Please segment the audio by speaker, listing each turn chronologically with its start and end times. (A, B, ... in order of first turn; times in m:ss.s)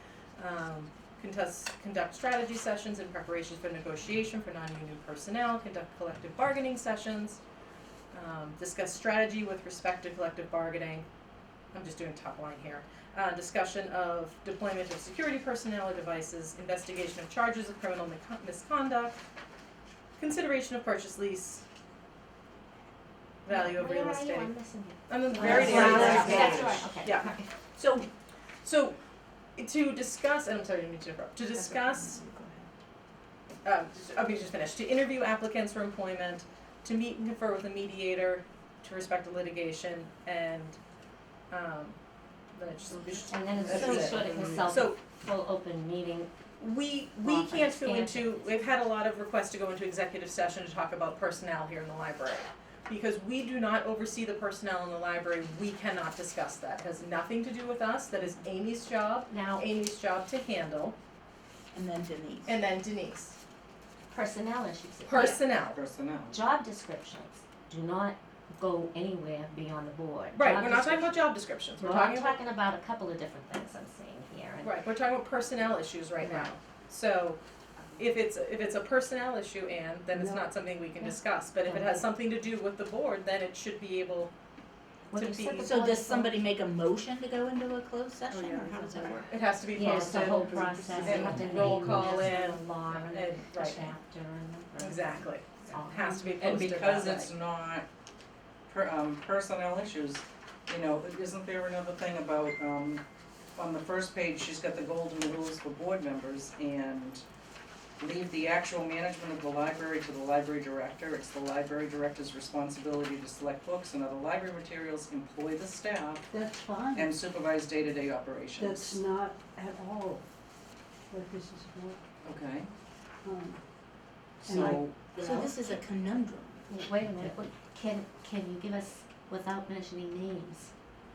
0:00.4-0:07.4 A
0:08.1-0:11.1 A
0:11.7-0:19.2 A
0:20.2-0:21.6 A
0:23.4-0:24.5 A
0:23.5-0:27.5 B
0:25.1-0:27.3 A
0:25.4-0:26.6 C
0:25.4-0:26.6 D
0:25.4-0:26.9 E
0:27.8-0:28.1 C
0:28.6-0:29.0 A
0:29.6-0:32.2 A
0:31.5-0:32.7 C
0:33.6-0:40.8 A
0:41.5-0:42.0 A
0:42.5-0:45.0 A
0:43.3-0:46.3 B
0:43.7-0:44.6 C
0:43.8-0:44.5 E
0:46.6-1:01.0 A
0:47.2-0:48.5 B
0:59.3-0:59.6 B
1:01.7-1:02.6 C
1:02.4-1:03.4 A
1:04.1-1:05.5 B
1:05.1-1:05.8 A
1:05.7-1:06.4 E
1:06.3-1:14.8 B
1:10.4-1:12.4 A
1:14.6-1:17.4 A
1:16.2-1:16.5 B
1:18.0-1:24.3 A
1:20.1-1:20.5 D
1:21.0-1:22.1 B
1:25.1-1:26.4 B
1:25.1-1:25.8 A
1:25.6-1:29.3 C
1:29.3-1:33.9 A
1:29.7-1:36.4 B
1:29.9-1:31.3 D
1:29.9-1:31.3 C
1:31.2-1:32.1 E
1:34.8-1:37.3 A
1:36.4-1:37.8 E
1:38.7-1:43.0 E
1:43.6-1:47.2 E
1:48.0-1:56.3 E
1:56.3-1:57.2 D
1:57.0-1:59.0 E
1:58.6-2:00.3 D
2:01.1-2:02.0 D
2:02.2-2:02.7 E
2:03.2-2:03.7 D
2:04.4-2:04.9 D
2:04.4-2:05.0 E
2:05.0-2:07.2 C
2:05.2-2:05.8 B
2:06.7-2:10.7 B